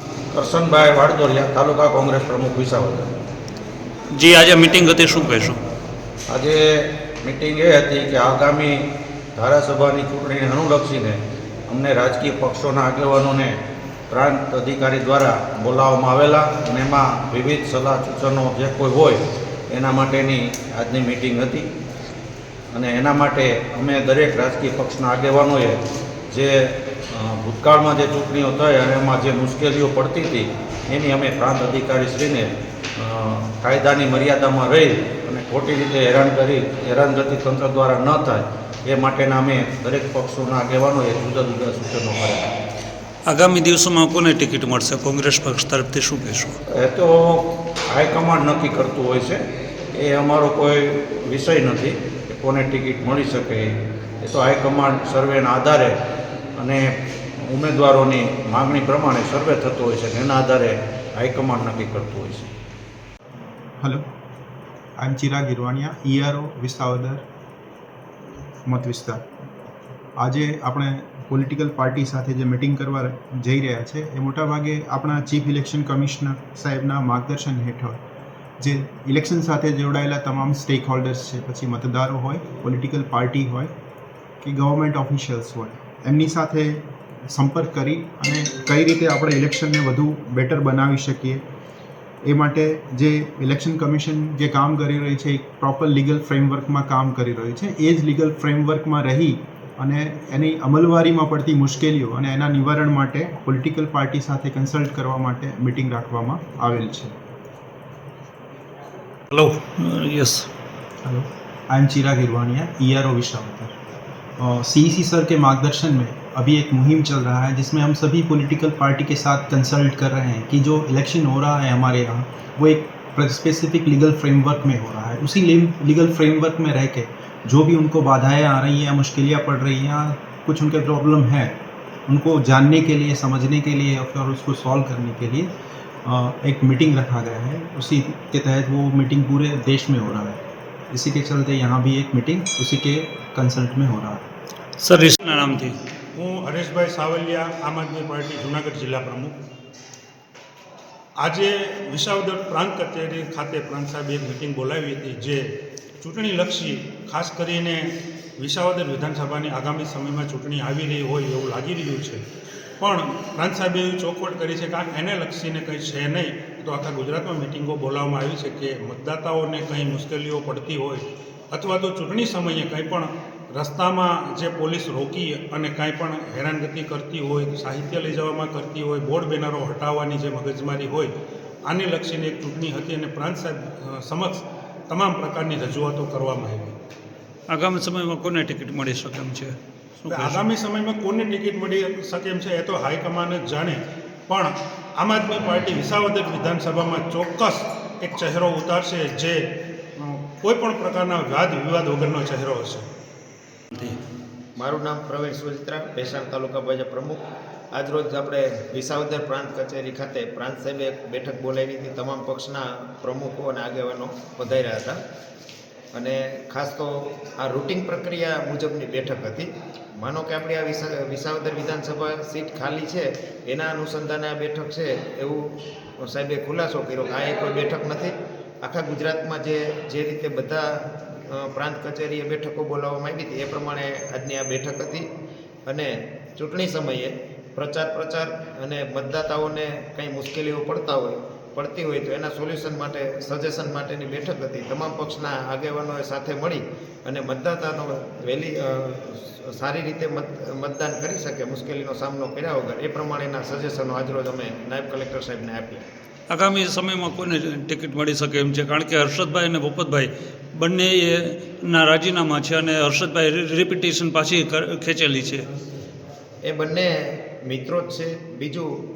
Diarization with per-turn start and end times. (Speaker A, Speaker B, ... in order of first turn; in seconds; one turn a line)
Speaker A: 0.3-3.1
Speaker B: 4.2-5.6
Speaker A: 6.3-21.7
Speaker A: 22.7-42.5
Speaker B: 43.3-46.6
Speaker A: 46.7-49.4
Speaker A: 49.9-56.0
Speaker A: 56.6-62.5
Speaker C: 63.8-64.0
Speaker C: 65.0-67.2
Speaker C: 68.7-69.2
Speaker C: 70.2-78.0
Speaker C: 78.6-83.7
Speaker C: 84.4-91.4
Speaker C: 92.3-107.1
Speaker B: 109.3-110.5
Speaker C: 111.0-113.8
Speaker C: 114.4-131.6
Speaker C: 132.1-135.5
Speaker C: 136.1-144.3
Speaker B: 144.8-145.8
Speaker D: 146.2-149.4
Speaker D: 151.2-155.4
Speaker D: 156.0-162.2
Speaker D: 162.8-181.1
Speaker D: 181.7-186.8
Speaker B: 187.5-190.4
Speaker D: 190.1-199.4
Speaker D: 200.0-202.9
Speaker E: 204.6-207.2
Speaker E: 207.7-215.0
Speaker E: 215.9-225.4
Speaker E: 226.0-235.1
Speaker E: 235.7-255.8
Speaker B: 256.3-265.5
Speaker E: 266.4-268.7